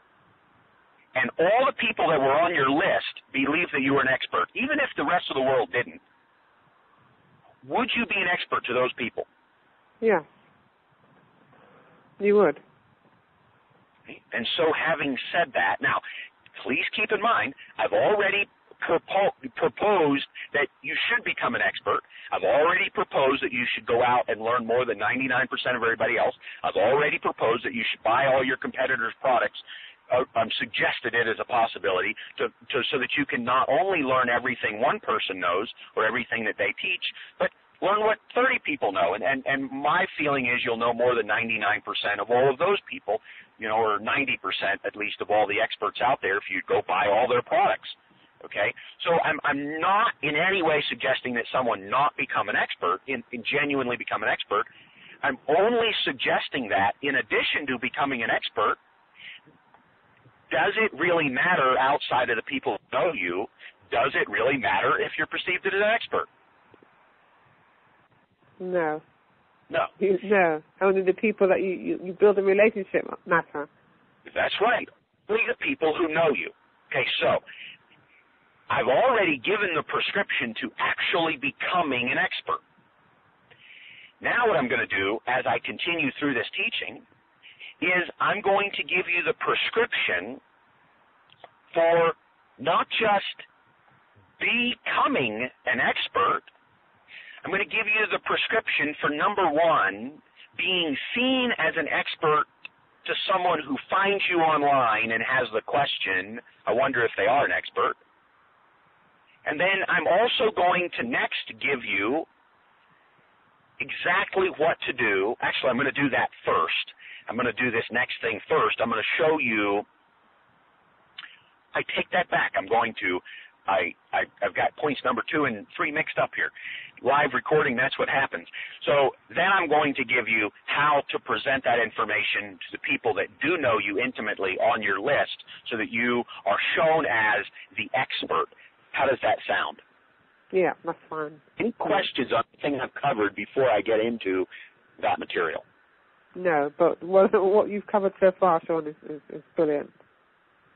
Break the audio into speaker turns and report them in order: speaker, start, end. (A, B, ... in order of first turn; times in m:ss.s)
0:01.1-0:06.0 A
0:07.6-0:09.3 A
0:10.0-0:10.2 B
0:12.2-0:12.6 B
0:14.1-0:16.0 A
0:16.5-0:54.7 A
0:55.2-0:58.8 A
1:00.5-1:06.3 A
1:08.6-1:09.0 B
1:10.0-1:13.7 B
1:14.3-1:17.4 A
1:18.7-1:22.6 A
1:24.2-1:27.0 A
1:27.8-1:30.4 A
1:31.7-1:33.4 A
1:34.4-1:36.5 A
1:37.4-1:42.5 A
1:43.0-1:48.0 A
1:49.4-1:52.3 A
1:53.8-1:59.8 A
2:01.7-2:19.8 A
2:20.5-2:21.4 B
2:21.6-2:25.6 A
2:26.3-2:29.9 B